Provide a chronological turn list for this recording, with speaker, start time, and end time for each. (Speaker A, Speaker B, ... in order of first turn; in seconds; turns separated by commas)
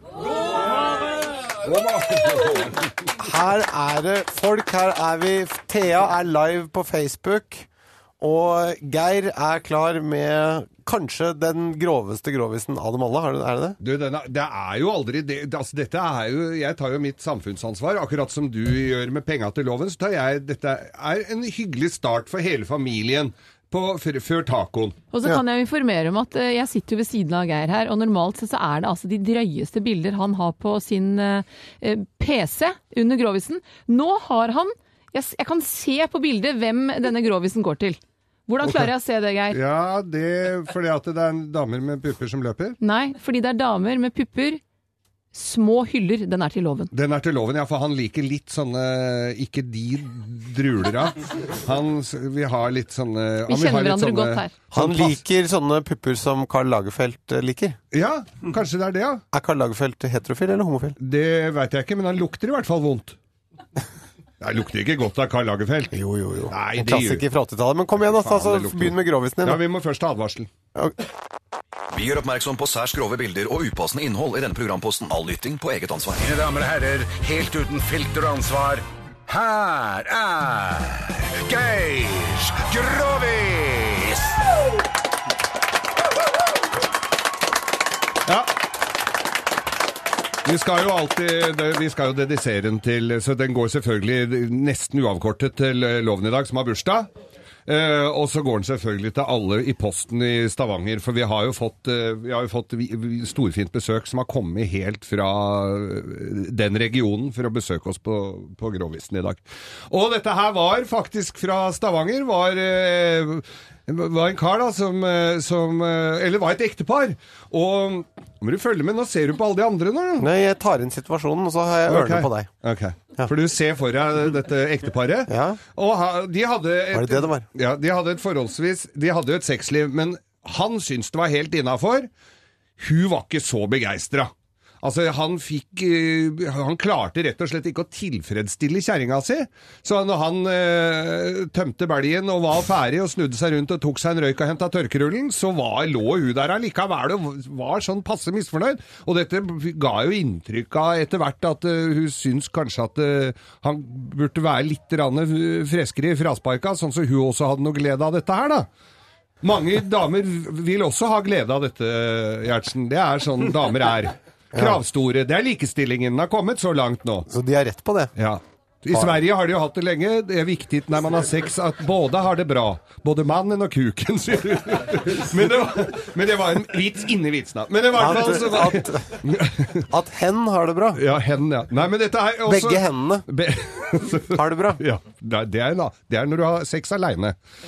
Speaker A: 1.5-2.9, Speaker B: 3.2-7.7, Speaker B: 8.2-13.8, Speaker A: 13.8-25.0, Speaker C: 25.1-39.6, Speaker A: 38.6-38.9, Speaker A: 39.5-42.8, Speaker C: 42.8-44.6, Speaker C: 45.3-46.9, Speaker A: 46.9-55.2, Speaker C: 53.5-54.5, Speaker B: 54.7-57.8, Speaker A: 57.9-59.2, Speaker B: 59.3-61.0, Speaker A: 61.0-63.2, Speaker A: 64.4-65.9, Speaker B: 65.9-69.6, Speaker A: 66.5-67.2, Speaker A: 68.0-70.5, Speaker D: 71.9-76.3, Speaker E: 76.2-84.3, Speaker A: 90.5-97.1, Speaker A: 97.7-120.3, Speaker B: 120.2-122.5, Speaker A: 121.9-132.1, Speaker B: 125.3-125.6, Speaker B: 126.9-127.5, Speaker A: 132.8-134.3, Speaker A: 134.8-158.7, Speaker A: 159.4-167.3, Speaker B: 164.5-164.8, Speaker B: 167.3-168.1, Speaker A: 168.2-179.9, Speaker B: 177.9-179.2, Speaker B: 179.9-181.0, Speaker A: 180.9-187.4, Speaker B: 182.5-183.3, Speaker B: 184.3-184.8